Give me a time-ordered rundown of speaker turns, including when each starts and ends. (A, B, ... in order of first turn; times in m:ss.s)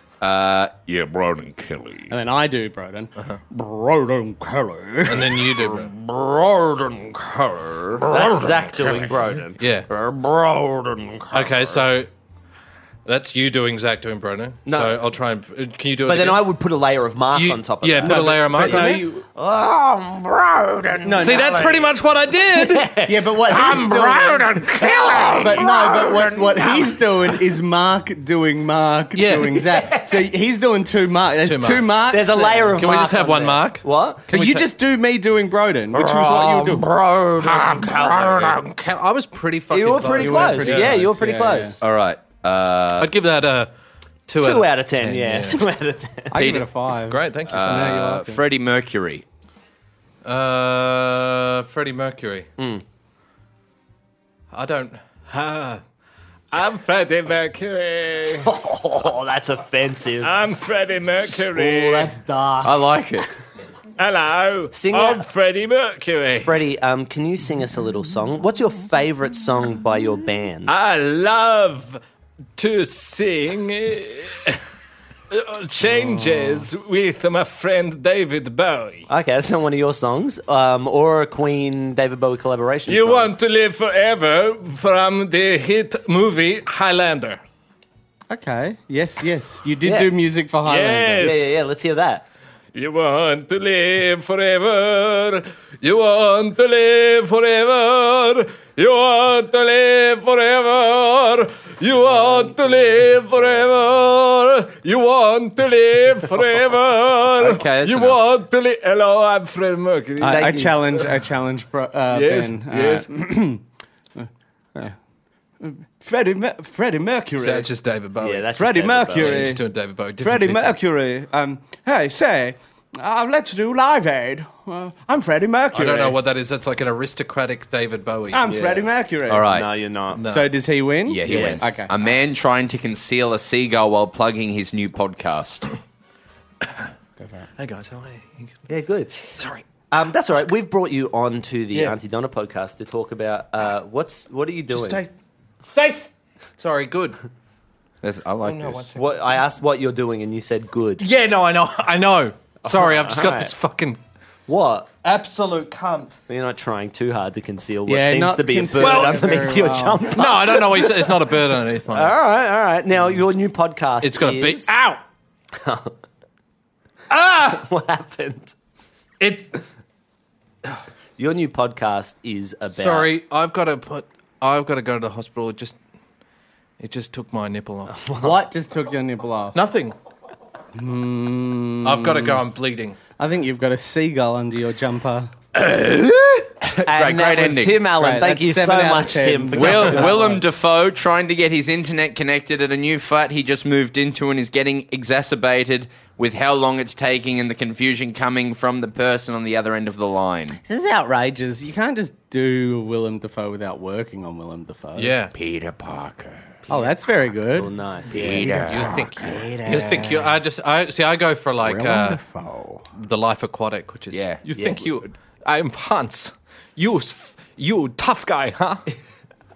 0:00.2-0:02.1 A
0:02.1-0:03.1 B
0:03.9-0:04.4 B
0:04.4-0:11.8 C
0:05.1-0:05.9 D
0:08.0-0:09.9 D
0:11.3-0:12.1 D
0:13.0-0:16.5 D
0:14.7-0:15.0 C
0:16.1-0:21.9 C
0:17.3-0:19.0 D
0:18.0-0:19.2 B
0:21.0-0:21.6 B
0:21.2-0:25.7 D
0:22.5-0:23.5 C
0:23.0-0:24.6 B
0:24.6-0:27.4 C
0:25.4-0:32.8 B
0:29.2-0:29.6 D
0:29.7-0:30.2 C
0:31.4-0:31.9 D
0:32.1-0:34.3 C
0:32.8-0:34.7 D
0:34.3-0:36.9 B
0:35.9-0:38.6 C
0:37.4-0:41.0 D
0:39.7-0:41.8 C
0:40.2-0:41.8 B
0:41.8-0:43.1 A
0:43.0-0:43.7 D
0:44.3-0:45.6 D
0:44.4-0:46.4 C
0:46.3-0:48.4 B
0:46.4-0:46.7 A
0:47.1-0:48.1 D
0:47.5-0:49.2 A
0:50.2-0:52.5 D
0:52.6-0:52.8 C
0:54.5-0:55.8 D
0:56.5-0:58.5 D
0:58.4-1:00.3 C
1:00.2-1:02.1 D
1:01.5-1:02.8 C
1:02.6-1:03.3 A
1:04.0-1:06.6 D
1:04.7-1:05.3 C
1:06.4-1:10.7 C
1:10.7-1:12.0 D
1:12.6-1:14.6 D
1:15.3-1:19.1 D
1:19.1-1:23.3 C
1:22.9-1:27.4 D
1:28.3-1:31.4 B
1:29.8-1:30.1 C
1:30.6-1:31.6 D
1:31.2-1:32.2 C
1:32.7-1:50.5 D
1:47.4-1:48.2 A
1:50.2-1:53.6 B
1:50.2-1:50.8 C
1:52.1-1:53.1 D
1:54.2-1:55.0 B
1:55.6-1:57.7 B
1:57.4-1:58.5 D
1:58.2-1:59.5 C
1:58.6-1:59.6 B
1:59.1-2:00.7 D
2:00.2-2:06.2 B
2:05.7-2:08.5 D
2:08.3-2:09.6 B
2:09.3-2:09.7 A
2:09.4-2:10.2 C
2:10.1-2:10.5 D
2:10.2-2:11.9 B
2:11.1-2:15.7 A
2:11.2-2:11.7 C
2:17.2-2:17.5 B
2:17.6-2:18.5 D
2:18.7-2:19.2 C
2:19.4-2:19.6 D
2:19.9-2:25.0 C
2:24.7-2:25.1 D
2:25.6-2:27.2 D
2:28.0-2:28.9 A
2:28.4-2:29.4 D
2:29.0-2:31.0 C
2:31.0-2:34.0 D
2:32.6-2:33.5 C
2:34.5-2:34.9 C
2:35.0-2:36.2 D
2:36.3-2:41.1 C
2:37.9-2:40.1 B
2:38.8-2:39.5 D
2:40.1-2:42.2 D
2:41.9-2:44.7 C
2:44.0-2:45.0 D
2:45.6-2:45.9 C
2:47.1-2:47.6 D
2:47.3-2:48.5 C
2:49.2-2:49.6 D
2:51.2-2:53.1 C
2:52.7-2:55.8 D
2:56.8-2:58.0 D
2:57.9-2:58.4 C
2:58.2-2:59.6 B
2:59.5-3:00.0 D
3:00.8-3:02.4 B
3:01.8-3:03.0 D
3:03.2-3:05.3 B
3:05.6-3:07.8 A
3:06.7-3:10.2 C
3:08.0-3:10.4 B
3:09.5-3:20.6 A
3:20.6-3:25.2 B
3:25.0-3:25.3 D
3:25.3-3:26.6 A
3:26.7-3:27.7 B
3:27.6-3:28.9 C
3:28.1-3:30.4 A
3:28.6-3:32.2 D
3:31.6-3:32.8 A
3:33.0-3:38.9 D
3:34.1-3:34.4 A
3:34.6-3:34.9 C